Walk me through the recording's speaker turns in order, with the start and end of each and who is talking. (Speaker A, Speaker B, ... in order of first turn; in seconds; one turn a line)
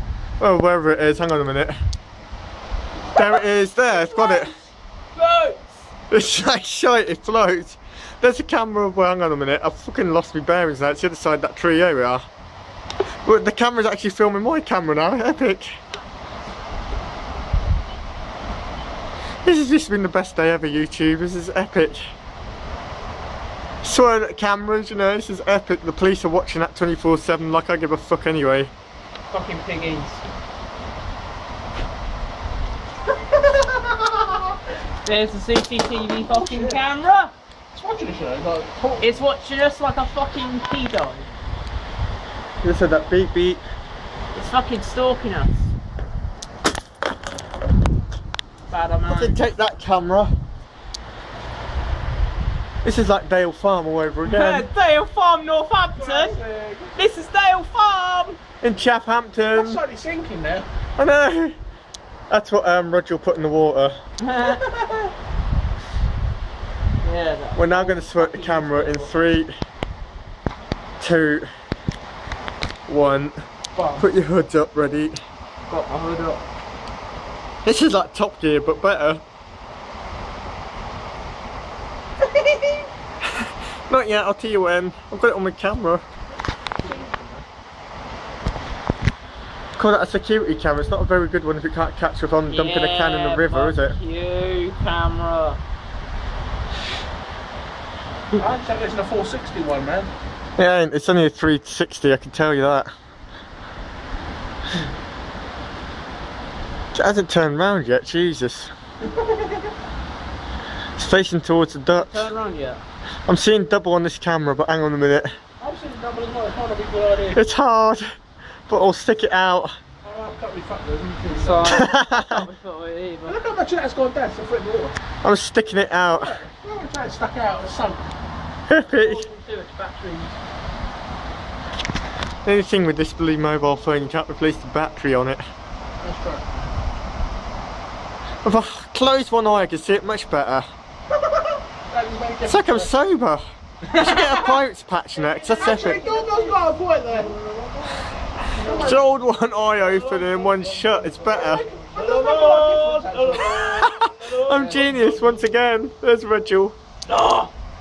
Speaker A: 0.4-1.8
Speaker A: 3.1-4.5
Speaker B: 3.2-4.5
Speaker B: 5.2-5.7
Speaker A: 6.1-12.2
Speaker A: 13.3-15.8
Speaker A: 19.4-22.0
Speaker A: 23.8-28.7
Speaker B: 29.3-30.2
Speaker C: 33.8-34.3
Speaker B: 35.0-37.3
Speaker C: 36.3-36.8
Speaker C: 37.7-39.2
Speaker B: 39.0-41.3
Speaker A: 42.6-43.6
Speaker B: 44.3-45.7
Speaker B: 48.7-49.4
Speaker A: 49.1-50.3
Speaker A: 52.8-54.7
Speaker B: 54.2-56.4
Speaker C: 56.0-57.1
Speaker B: 57.0-58.4
Speaker A: 58.6-59.8
Speaker C: 59.5-60.7
Speaker A: 61.0-61.5
Speaker A: 62.3-64.0
Speaker B: 64.2-64.7
Speaker C: 64.4-65.1
Speaker B: 67.0-69.2
Speaker A: 67.5-69.5
Speaker A: 71.0-71.5
Speaker A: 72.9-73.4
Speaker C: 73.8-74.1
Speaker A: 74.0-75.2
Speaker B: 75.7-76.4
Speaker A: 77.7-79.2
Speaker A: 83.9-86.0
Speaker A: 89.8-94.0
Speaker B: 92.5-95.6
Speaker C: 98.4-100.1
Speaker A: 100.6-102.9
Speaker A: 107.0-108.7
Speaker C: 109.1-109.6
Speaker A: 111.0-112.3
Speaker B: 111.9-112.8
Speaker A: 113.3-115.3
Speaker C: 115.6-117.4
Speaker A: 117.3-118.0
Speaker A: 118.7-119.8
Speaker C: 120.0-121.7
Speaker B: 121.3-123.4
Speaker A: 121.7-122.5
Speaker C: 123.3-125.0
Speaker A: 125.2-126.4
Speaker C: 126.2-128.0
Speaker A: 128.7-129.2
Speaker B: 128.9-130.3
Speaker A: 132.4-135.4
Speaker C: 136.0-136.5
Speaker A: 138.4-140.7
Speaker C: 141.9-142.9
Speaker A: 142.5-146.1
Speaker C: 143.9-144.6
Speaker C: 145.2-147.8
Speaker B: 145.6-146.6
Speaker C: 148.4-149.2
Speaker A: 148.8-151.7
Speaker C: 149.7-155.5
Speaker B: 151.9-153.9
Speaker A: 153.4-156.8
Speaker B: 157.1-157.4